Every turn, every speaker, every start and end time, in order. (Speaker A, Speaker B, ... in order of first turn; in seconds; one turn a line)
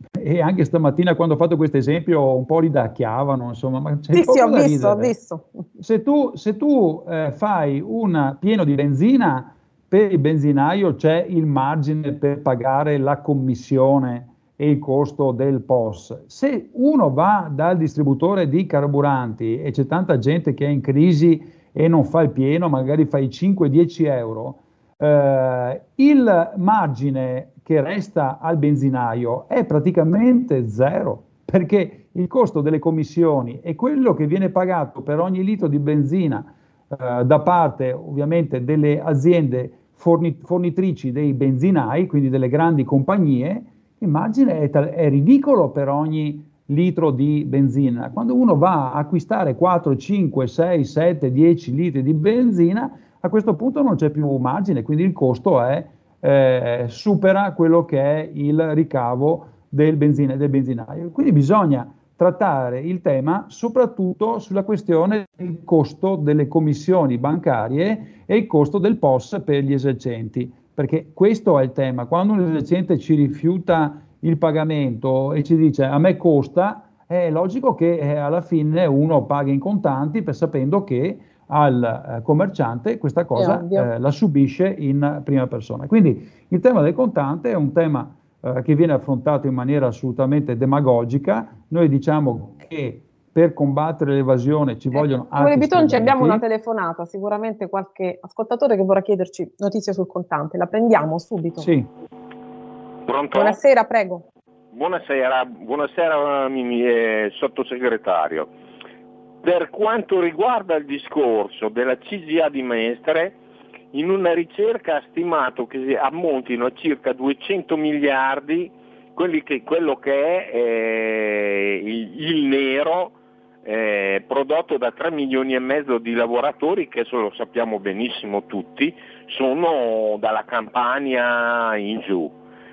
Speaker A: 0.2-5.2
Speaker B: 4.1-5.7
Speaker A: 5.8-96.4
Speaker B: 83.3-83.9
Speaker B: 95.0-101.7
Speaker A: 101.6-101.9
Speaker C: 103.1-103.6
Speaker B: 103.3-104.2
Speaker C: 104.7-108.5
Speaker C: 109.4-113.4
Speaker C: 113.9-132.3